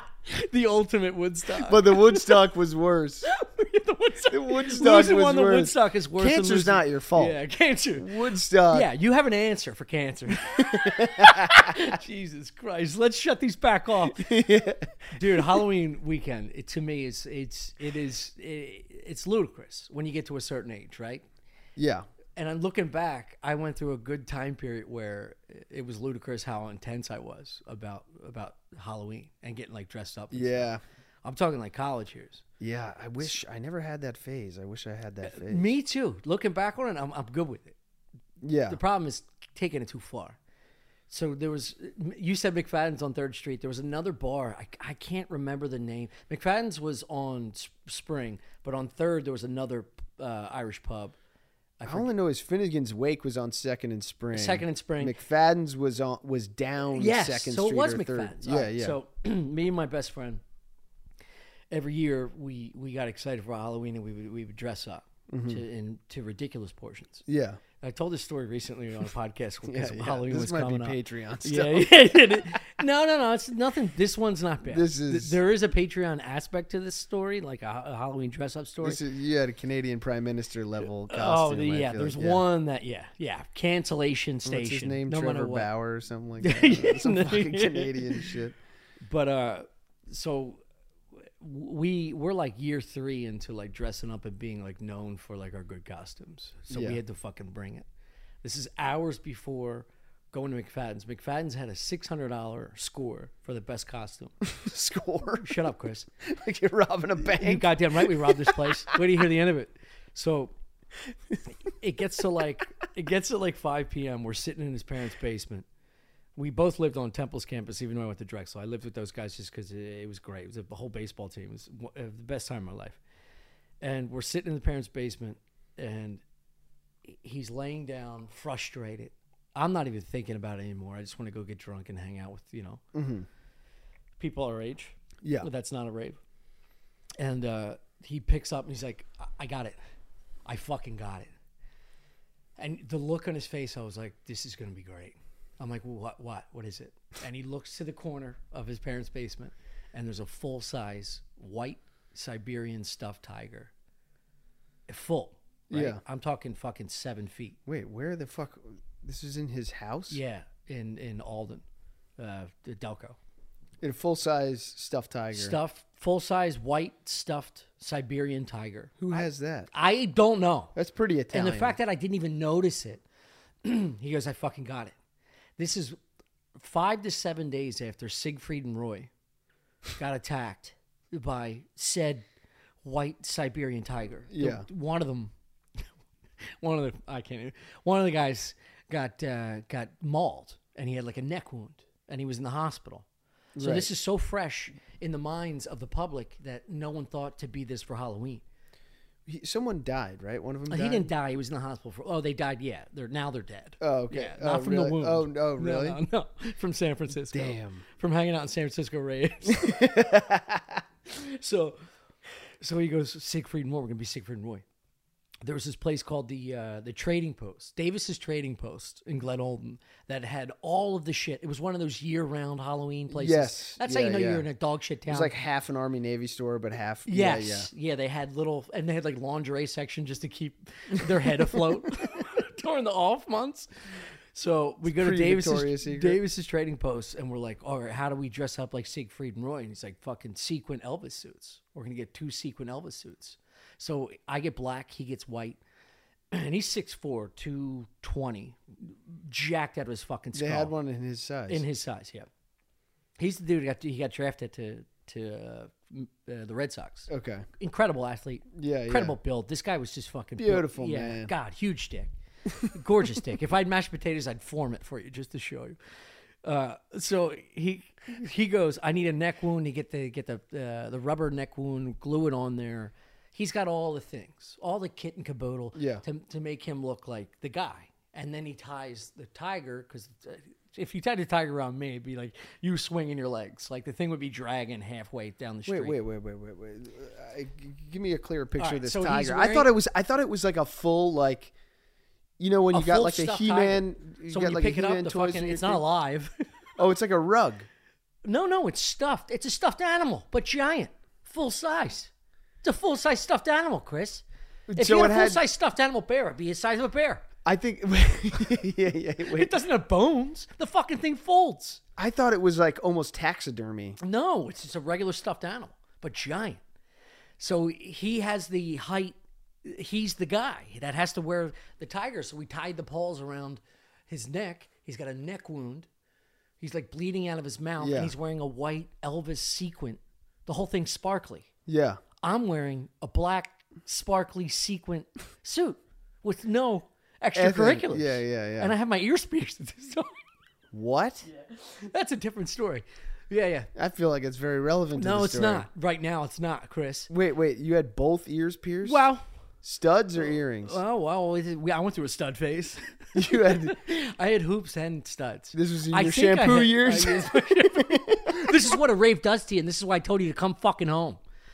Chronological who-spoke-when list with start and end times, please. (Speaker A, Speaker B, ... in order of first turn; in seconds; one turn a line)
Speaker A: 0.3-2.4
Speaker B: 1.6-3.3
Speaker A: 3.2-14.5
Speaker B: 4.3-7.4
Speaker B: 8.0-8.9
Speaker B: 10.6-11.9
Speaker B: 14.1-15.7
Speaker A: 15.1-21.2
Speaker B: 21.8-22.1
Speaker A: 22.3-30.7
Speaker B: 30.3-30.8
Speaker A: 31.2-32.4
Speaker B: 32.6-35.7
Speaker A: 35.2-37.8
Speaker B: 38.4-38.8
Speaker A: 38.7-40.4
Speaker A: 41.1-51.1
Speaker A: 51.8-52.1
Speaker B: 51.8-59.0
Speaker A: 54.3-55.2
Speaker A: 56.9-60.4
Speaker A: 61.7-67.2
Speaker B: 65.3-65.6
Speaker B: 67.2-67.6
Speaker A: 67.8-79.0
Speaker B: 69.7-72.6
Speaker B: 74.7-75.4
Speaker B: 78.8-82.4
Speaker A: 81.0-85.7
Speaker B: 84.4-88.6
Speaker A: 86.4-88.3
Speaker A: 89.0-90.6
Speaker A: 91.2-97.9
Speaker B: 96.7-97.0
Speaker A: 98.4-104.4
Speaker B: 104.5-105.6
Speaker A: 105.4-106.1
Speaker B: 106.2-109.0
Speaker A: 107.2-110.5
Speaker A: 111.6-115.7
Speaker A: 116.3-123.0
Speaker A: 123.8-126.2
Speaker A: 127.0-132.8
Speaker B: 132.9-133.3
Speaker A: 134.2-136.2
Speaker B: 135.2-135.5
Speaker A: 137.2-139.8
Speaker A: 140.4-141.3
Speaker A: 142.6-153.7
Speaker A: 154.9-157.6
Speaker B: 155.7-156.0
Speaker B: 157.7-160.2
Speaker A: 160.1-161.6
Speaker A: 162.2-163.2
Speaker B: 163.8-165.6
Speaker A: 165.3-170.7
Speaker B: 169.0-169.7
Speaker B: 170.7-171.8
Speaker A: 171.3-173.0
Speaker A: 173.6-174.9
Speaker A: 175.6-176.0
Speaker A: 176.6-179.1
Speaker A: 179.9-182.2
Speaker A: 182.8-185.8
Speaker B: 184.3-184.7
Speaker A: 186.6-193.1
Speaker B: 193.6-193.9
Speaker A: 193.6-198.4
Speaker B: 199.2-201.1
Speaker A: 200.7-210.2
Speaker B: 203.8-206.0
Speaker B: 207.3-207.8
Speaker B: 209.5-210.8
Speaker A: 211.1-211.8
Speaker A: 212.6-214.6
Speaker A: 215.4-225.3
Speaker B: 223.1-224.5
Speaker B: 225.1-227.7
Speaker A: 227.1-233.7
Speaker A: 234.3-245.6
Speaker B: 234.8-236.2
Speaker A: 246.3-250.7
Speaker B: 250.3-251.6
Speaker A: 251.5-252.3
Speaker A: 253.2-262.1
Speaker B: 257.1-257.4
Speaker B: 258.5-259.2
Speaker B: 260.4-261.3
Speaker B: 262.5-262.8
Speaker A: 262.7-265.8
Speaker A: 266.4-286.0
Speaker B: 275.7-276.0
Speaker B: 285.7-291.5
Speaker A: 288.6-289.7
Speaker B: 292.4-295.8
Speaker A: 292.7-296.5
Speaker B: 296.8-297.7
Speaker A: 298.2-302.1
Speaker A: 302.6-304.2
Speaker B: 304.7-305.4
Speaker A: 304.7-307.2
Speaker B: 307.4-309.6
Speaker A: 309.3-311.8
Speaker B: 312.0-314.0
Speaker A: 314.0-316.6
Speaker A: 317.4-325.9
Speaker A: 326.6-331.5
Speaker B: 327.8-328.1
Speaker B: 331.7-332.0
Speaker A: 332.2-340.1
Speaker B: 337.3-338.7
Speaker B: 340.7-341.3
Speaker A: 341.3-343.7
Speaker B: 343.8-345.7
Speaker A: 344.9-347.1
Speaker B: 347.1-349.0
Speaker A: 348.8-349.2
Speaker B: 349.6-350.8
Speaker A: 350.6-361.2
Speaker B: 353.1-353.8
Speaker B: 355.5-358.8